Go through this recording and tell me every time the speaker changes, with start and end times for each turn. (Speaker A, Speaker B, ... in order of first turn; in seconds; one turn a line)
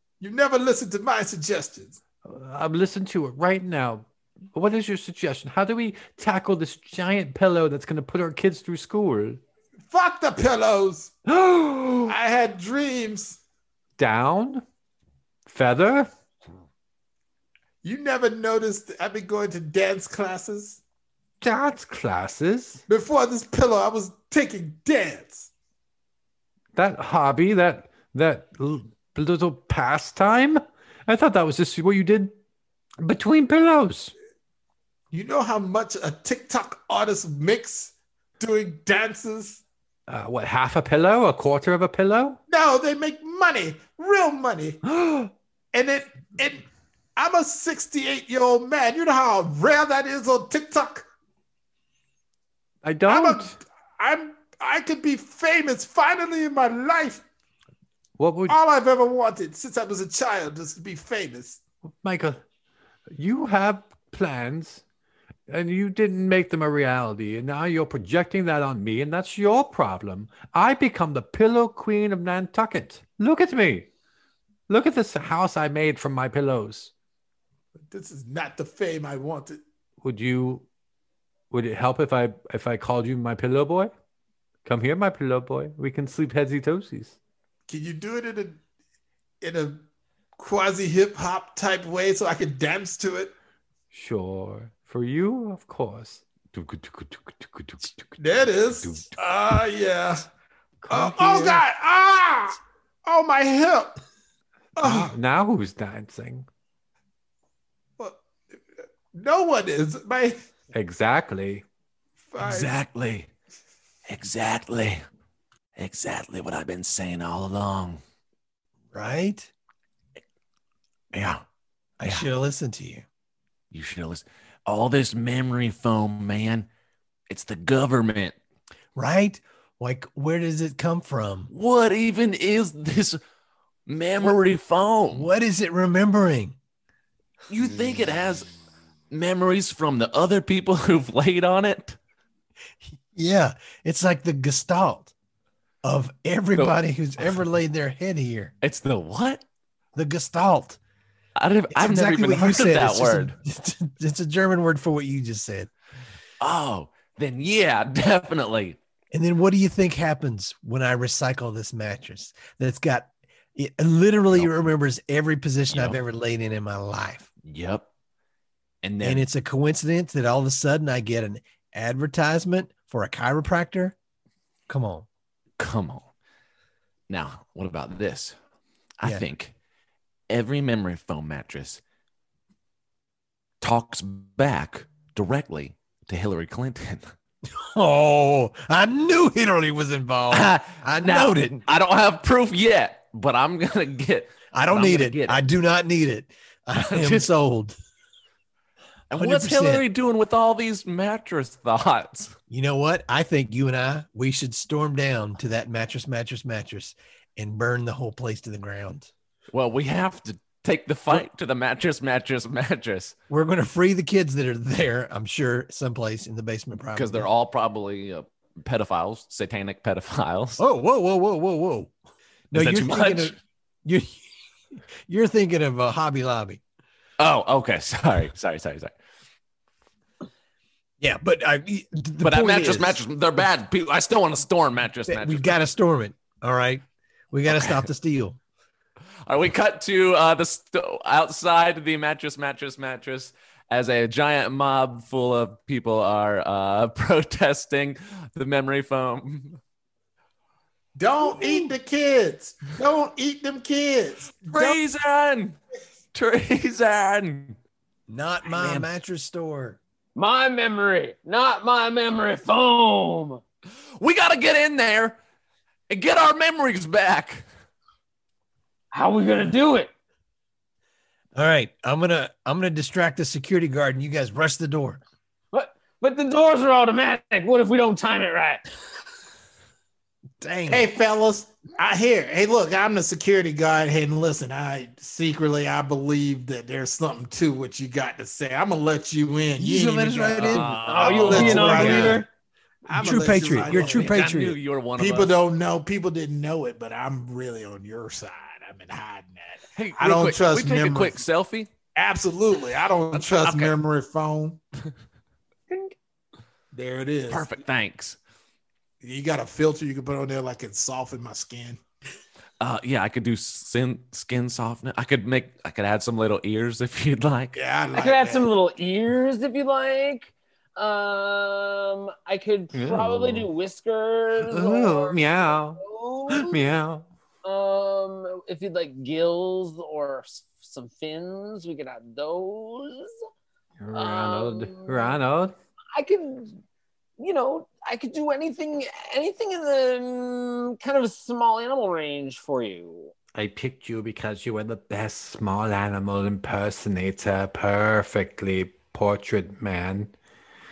Speaker A: 0.2-2.0
Speaker B: 2.3-9.4
Speaker A: 9.9-11.2
Speaker B: 11.3-12.2
Speaker A: 12.1-13.4
Speaker B: 14.0-14.6
Speaker B: 15.5-16.1
Speaker A: 17.8-20.8
Speaker B: 21.4-22.9
Speaker A: 22.9-25.5
Speaker B: 26.8-32.3
Speaker B: 33.0-34.1
Speaker A: 35.1-39.6
Speaker B: 40.1-42.4
Speaker A: 42.5-44.8
Speaker B: 44.9-45.3
Speaker A: 45.7-51.0
Speaker B: 52.8-53.6
Speaker A: 53.1-57.2
Speaker B: 58.2-58.6
Speaker A: 58.5-61.6
Speaker B: 62.0-62.4
Speaker B: 63.1-64.8
Speaker B: 65.5-73.9
Speaker B: 74.7-76.9
Speaker A: 77.9-79.6
Speaker B: 80.0-80.7
Speaker B: 81.5-83.9
Speaker B: 84.7-87.2
Speaker A: 87.7-88.6
Speaker A: 89.4-89.8
Speaker A: 90.4-93.3
Speaker B: 93.9-99.1
Speaker A: 98.2-100.3
Speaker B: 100.8-101.6
Speaker A: 100.9-104.0
Speaker A: 104.8-105.2
Speaker B: 104.8-106.5
Speaker A: 109.1-110.4
Speaker B: 110.7-111.6
Speaker A: 112.3-112.8
Speaker C: 112.4-113.3
Speaker C: 114.1-115.0
Speaker C: 115.8-118.0
Speaker D: 118.9-119.5
Speaker C: 121.1-121.4
Speaker D: 122.0-123.1
Speaker C: 123.7-126.7
Speaker C: 127.3-128.4
Speaker D: 129.0-131.5
Speaker C: 131.5-133.2
Speaker C: 133.9-135.3
Speaker D: 135.1-136.6
Speaker C: 137.5-138.5
Speaker C: 139.1-142.0
Speaker D: 142.8-145.1
Speaker D: 145.8-148.5
Speaker C: 146.6-147.4
Speaker C: 148.6-149.4
Speaker D: 149.9-150.8
Speaker C: 151.4-153.3
Speaker D: 151.7-155.7
Speaker C: 156.4-158.8
Speaker D: 159.1-167.3
Speaker C: 165.7-166.0
Speaker C: 167.4-167.8
Speaker C: 168.8-169.3
Speaker D: 169.0-174.0
Speaker D: 174.7-175.1
Speaker C: 175.6-176.1
Speaker C: 177.1-178.4
Speaker C: 179.0-179.5
Speaker C: 180.3-181.8
Speaker C: 183.6-187.1
Speaker D: 187.5-191.7
Speaker C: 190.3-195.4
Speaker D: 194.5-197.8
Speaker C: 196.8-197.3
Speaker C: 199.1-202.3
Speaker D: 199.1-199.8
Speaker D: 202.5-209.1
Speaker C: 209.5-213.2
Speaker D: 213.3-217.3
Speaker C: 216.9-220.6
Speaker D: 220.6-221.9
Speaker D: 222.5-224.2
Speaker C: 222.5-223.4
Speaker D: 225.1-226.6
Speaker C: 227.2-228.9
Speaker D: 231.0-233.0
Speaker C: 232.2-235.6
Speaker D: 235.1-238.4
Speaker C: 237.5-237.9
Speaker C: 239.3-249.6
Speaker A: 251.0-254.8
Speaker C: 254.5-255.6
Speaker C: 256.1-257.6
Speaker D: 258.1-259.8
Speaker C: 258.4-258.9
Speaker E: 260.2-263.4
Speaker C: 264.0-265.2
Speaker C: 265.9-267.4
Speaker E: 268.9-269.9
Speaker D: 271.4-275.0
Speaker E: 275.5-278.6
Speaker D: 280.4-280.9
Speaker A: 280.7-292.2
Speaker D: 289.6-292.2
Speaker C: 290.4-292.1
Speaker E: 290.9-292.3
Speaker A: 292.9-294.2
Speaker D: 292.9-294.6
Speaker C: 293.2-295.4
Speaker A: 295.0-301.2
Speaker C: 299.8-301.7
Speaker A: 302.0-304.6
Speaker C: 303.1-303.7
Speaker E: 305.7-305.9
Speaker A: 306.7-307.5
Speaker C: 307.3-308.2
Speaker A: 309.0-311.8
Speaker C: 312.6-317.6
Speaker A: 317.6-318.5
Speaker E: 317.9-326.6
Speaker B: 322.7-323.5
Speaker B: 324.5-327.1
Speaker E: 327.4-333.1
Speaker B: 333.8-335.6
Speaker E: 333.9-335.2
Speaker E: 335.9-336.6
Speaker E: 337.2-343.1
Speaker B: 343.4-350.1